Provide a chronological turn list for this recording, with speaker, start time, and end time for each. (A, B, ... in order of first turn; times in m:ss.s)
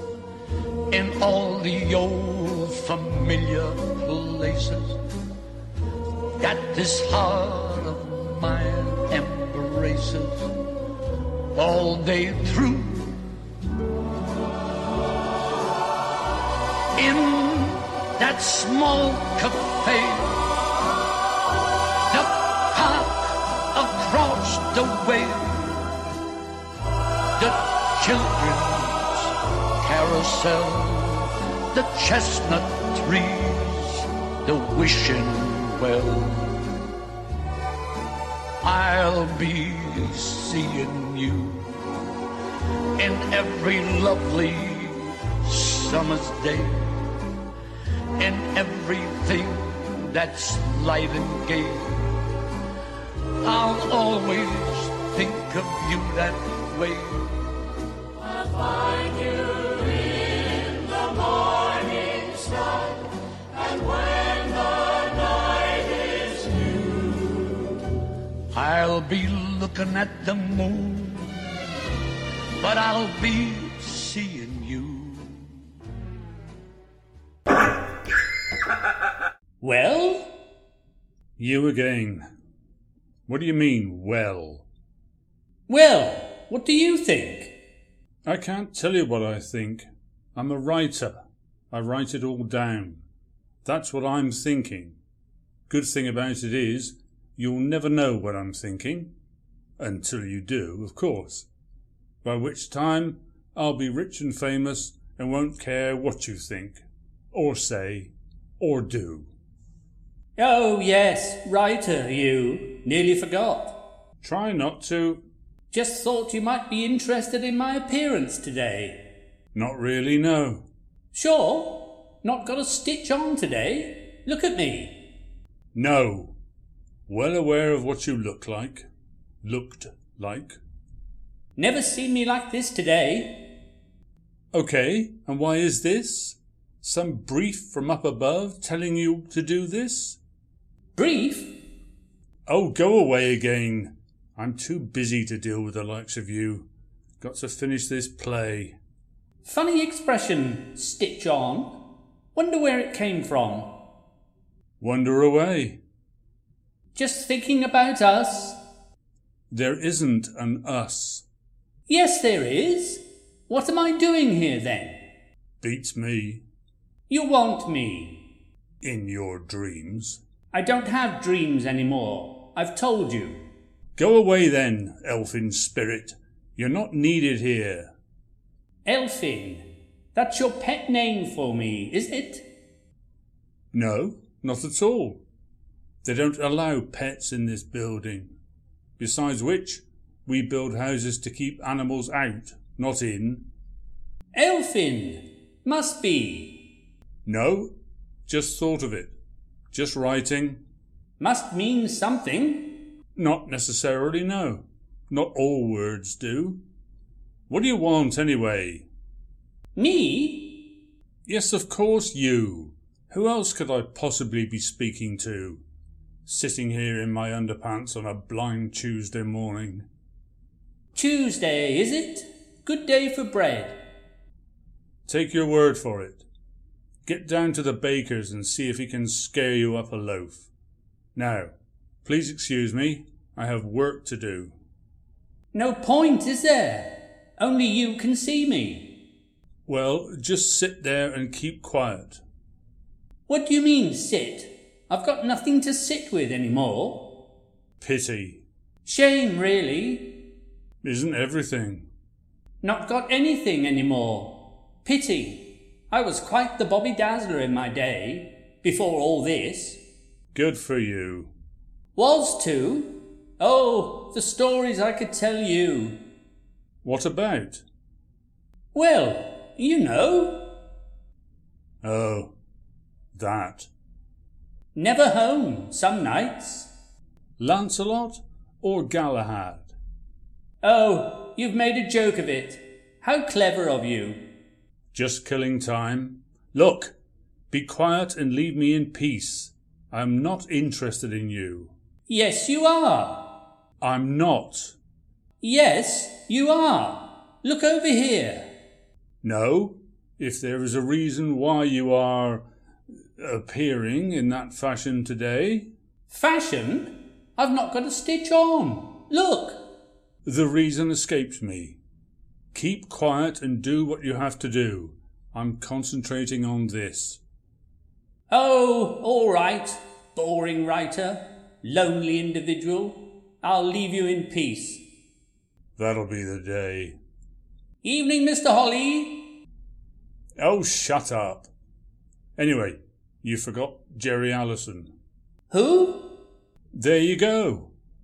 0:00.9-0:05.0 A
0:06.4-0:10.6 A
0:11.5-0:13.3 A
0:17.0-0:20.6 A
0:22.1-0:25.9 A
0:27.4-0:36.8 A
0:38.6-0:41.7 A
0:43.0-0:47.1 A
0:48.2-0:52.2 A
0:53.4-0:57.5 A
0:58.7-1:02.9 A
1:04.0-1:06.7 A
1:08.5-1:11.5 A
1:12.6-1:15.5 A
1:19.6-1:20.3 B
1:21.4-1:22.3 C
1:23.3-1:24.7 C
1:25.7-1:27.6 B
1:28.2-1:33.0 C
1:33.6-1:35.0 C
1:35.7-1:39.1 C
1:39.8-1:41.5 C
1:42.2-1:49.3 C
1:50.4-1:53.8 B
1:54.2-1:55.2 C
1:55.7-1:59.0 B
1:59.5-2:00.6 C
2:01.1-2:05.0 B
2:05.7-2:06.4 C
2:07.1-2:08.9 C
2:09.4-2:10.6 C
2:11.6-2:13.4 B
2:14.5-2:20.2 C
2:21.0-2:21.6 B
2:22.5-2:26.7 C
2:27.2-2:28.8 C
2:29.4-2:31.8 B
2:32.4-2:33.7 B
2:34.8-2:35.8 C
2:37.0-2:38.6 B
2:39.5-2:41.2 C
2:41.9-2:45.0 B
2:45.6-2:46.4 C
2:47.1-2:48.2 B
2:48.8-2:50.2 C
2:50.5-2:53.4 B
2:54.0-2:57.9 C
2:58.9-3:02.4 B
3:03.7-3:05.2 C
3:06.0-3:08.4 C
3:09.0-3:13.5 C
3:14.3-3:16.6 B
3:17.2-3:17.7 C
3:18.3-3:19.1 C
3:19.7-3:20.6 C
3:21.2-3:22.8 B
3:23.2-3:26.6 C
3:27.5-3:28.9 C
3:29.8-3:30.6 B
3:31.3-3:35.6 C
3:36.3-3:39.9 C
3:41.0-3:43.8 B
3:45.1-3:46.3 C
3:47.0-3:50.5 C
3:51.2-3:51.5 C
3:52.0-3:54.5 C
3:55.5-3:58.9 B
3:59.7-4:02.2 C
4:03.3-4:07.1 B
4:07.8-4:08.4 C
4:08.8-4:10.1 B
4:10.8-4:11.9 C
4:12.6-4:19.8 B
4:20.3-4:21.3 C
4:22.0-4:26.0 B
4:26.8-4:27.6 C
4:28.7-4:30.5 B
4:31.8-4:32.3 C
4:33.2-4:33.7 C
4:34.8-4:36.7 B
4:37.4-4:39.7 C
4:40.6-4:44.2 B
4:44.9-4:46.9 C
4:47.5-4:51.7 C
4:52.1-4:53.2 B
4:53.8-4:54.8 C
4:55.4-4:58.5 B
4:59.2-5:02.5 C
5:03.2-5:05.7 C
5:06.1-5:09.6 B
5:10.2-5:11.8 C
5:12.5-5:17.2 C
5:18.3-5:24.8 B
5:25.8-5:27.0 C
5:27.8-5:29.2 B
5:30.4-5:31.5 C
5:32.4-5:34.9 C
5:35.5-5:36.1 B
5:36.7-5:37.7 C